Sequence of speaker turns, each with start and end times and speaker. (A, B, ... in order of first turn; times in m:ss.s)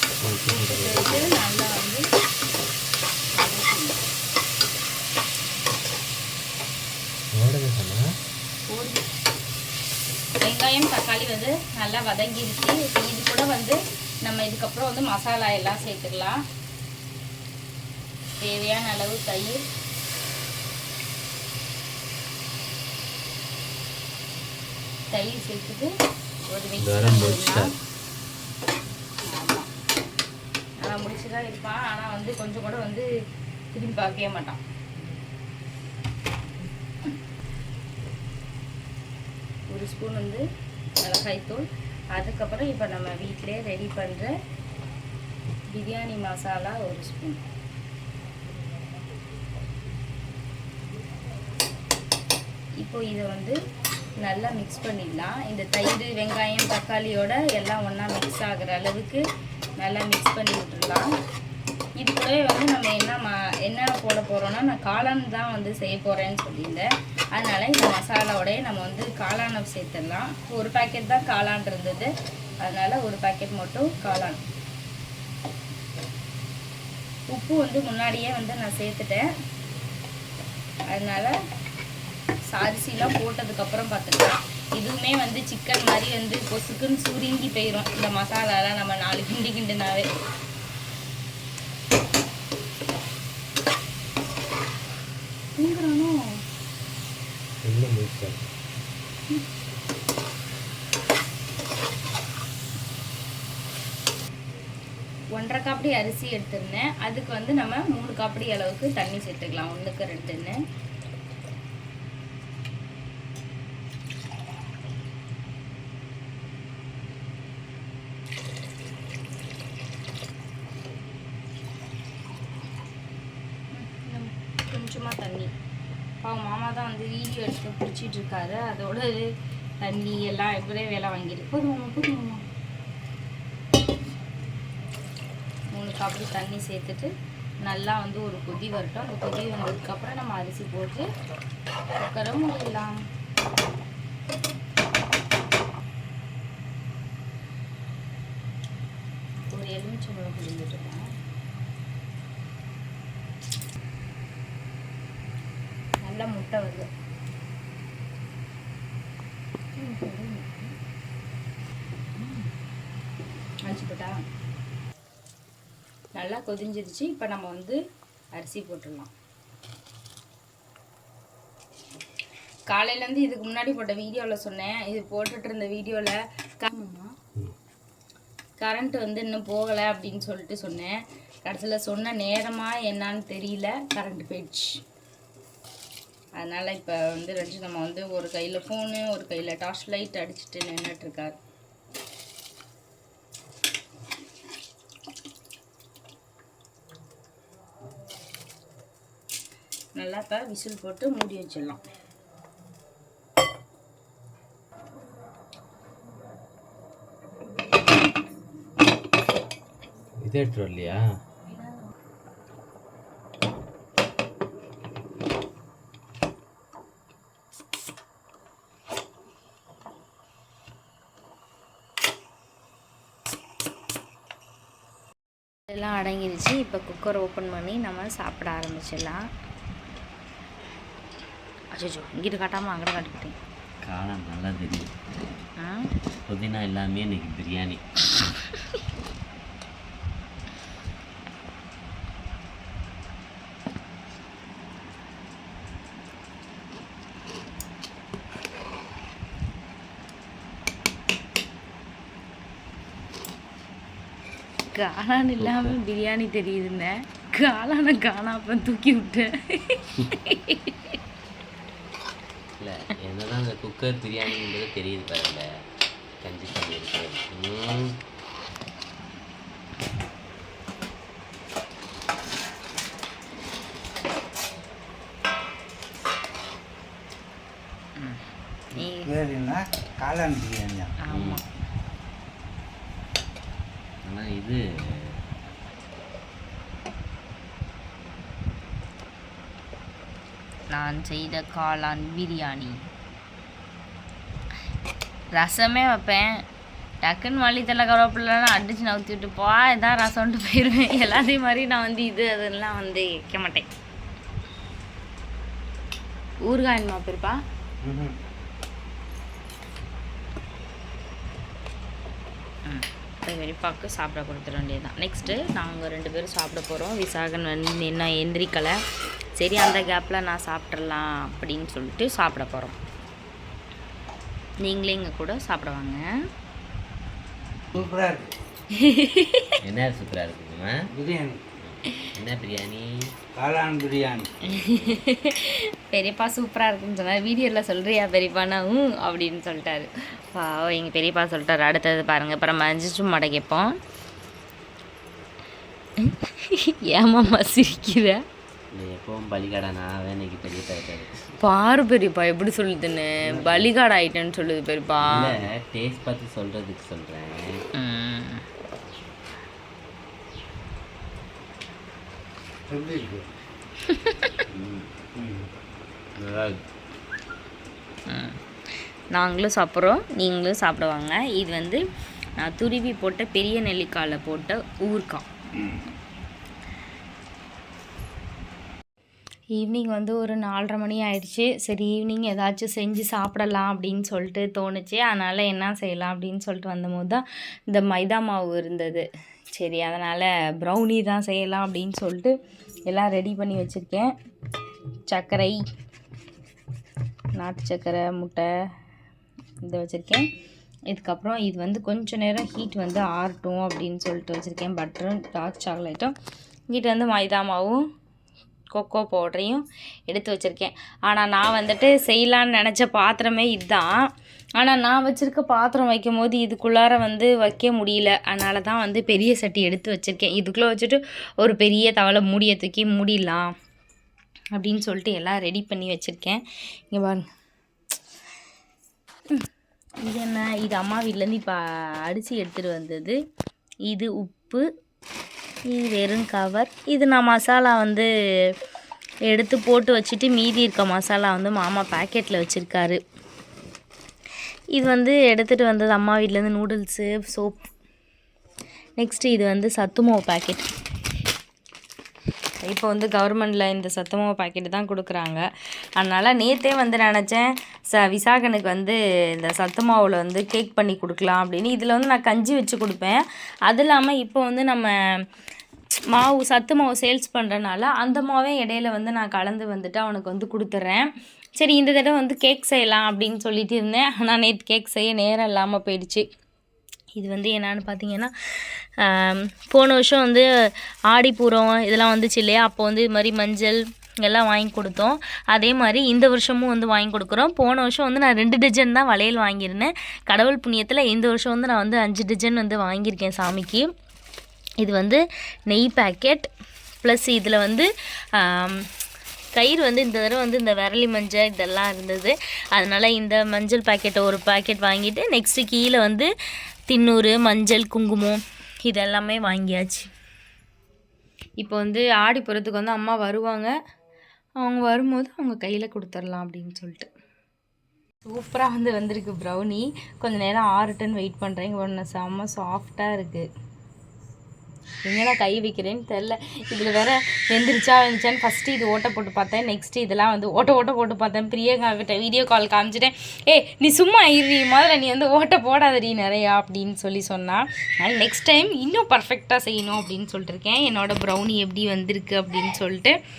0:00.2-0:01.4 A
0:00.5-0:02.0 B
0:03.3-0:04.0 B
0:07.4-0:08.1 A
0:08.7-0:09.0 B
0:10.4-0:16.4 B
0:18.4-0:19.6 B
0:25.1-0:25.9 B
0:26.5-0:27.7 B
0:26.8-0:27.7 A
0:29.3-0:29.7 B
0:30.8-0:33.1 B
0:33.7-0:34.6 B
0:39.7-0:40.4 B
0:41.0-0:44.3 B
0:45.7-0:47.4 B
0:52.8-0:53.6 B
0:54.2-0:59.2 B
0:59.8-1:01.1 B
1:02.0-1:12.1 B
1:12.6-1:14.4 B
1:17.3-1:19.3 B
1:20.9-1:21.3 B
1:22.5-1:30.1 B
1:35.6-1:36.2 B
1:37.6-1:38.5 A
1:45.3-1:50.6 B
2:03.7-2:05.5 B
2:06.2-2:12.4 B
2:15.7-2:17.1 B
2:17.6-2:21.1 B
2:22.0-2:23.0 B
2:29.5-2:31.0 B
2:36.0-2:36.9 B
2:39.8-2:40.8 B
2:42.2-2:42.5 B
2:43.7-2:44.2 B
2:46.2-2:47.8 B
2:48.4-2:49.1 B
2:52.7-2:57.2 B
2:58.6-3:04.8 B
3:06.4-3:11.4 B
3:20.0-3:21.8 B
3:30.2-3:31.0 A
3:45.7-3:49.2 B
3:51.7-3:53.4 B
3:53.8-3:54.9 A
3:55.6-3:55.9 B
3:56.3-3:57.8 A
4:14.8-4:21.0 B
4:15.4-4:15.8 A
4:22.6-4:25.5 A
4:26.2-4:27.8 A
4:38.0-4:38.2 B
4:38.7-4:39.2 B
4:39.0-4:40.9 C
4:41.1-4:41.4 B
4:44.1-4:44.6 A
4:50.7-4:52.8 B
4:55.4-4:56.4 B
4:57.0-5:03.7 B
5:06.4-5:07.4 B
5:07.8-5:08.2 C
5:12.7-5:18.8 B
5:19.4-5:22.8 B
5:24.6-5:26.0 B
5:27.7-5:28.3 C
5:28.7-5:29.6 B
5:29.6-5:30.8 A
5:30.9-5:31.4 C
5:31.6-5:32.9 A
5:33.4-5:34.4 C
5:34.4-5:43.8 B
5:34.6-5:34.9 A
5:46.0-5:48.2 B
5:48.8-5:51.2 A
5:51.4-5:55.3 B
5:55.0-5:57.6 A
5:57.8-5:58.4 B
6:02.7-6:03.3 C
6:03.8-6:04.4 B
6:04.5-6:04.9 A
6:05.2-6:05.5 C
6:06.2-6:06.6 A
6:08.1-6:08.4 B
6:09.1-6:11.8 B
6:12.4-6:15.3 B
6:19.6-6:32.3 B
6:32.9-6:34.1 B
6:35.1-6:35.6 B
6:37.4-6:38.5 B
6:39.6-6:40.3 B
6:40.9-6:46.1 B
6:46.7-6:47.8 B
6:48.7-6:54.1 B
6:54.6-7:03.5 B
7:04.6-7:07.2 B
7:10.0-7:13.2 B
7:13.9-7:14.7 B
7:15.7-7:18.5 B
7:19.3-7:23.0 B
7:24.7-7:27.7 B
7:29.0-7:30.7 B
7:32.6-7:35.4 B
7:36.0-7:44.9 B
7:46.1-7:56.3 B
7:57.2-8:00.5 B
8:01.1-8:13.9 B
8:14.8-8:16.5 B
8:17.0-8:18.9 B
8:19.5-8:26.3 B
8:26.9-8:30.1 B
8:31.6-8:33.7 B
8:34.6-8:37.1 B
8:38.3-8:43.5 B
8:45.0-9:03.2 B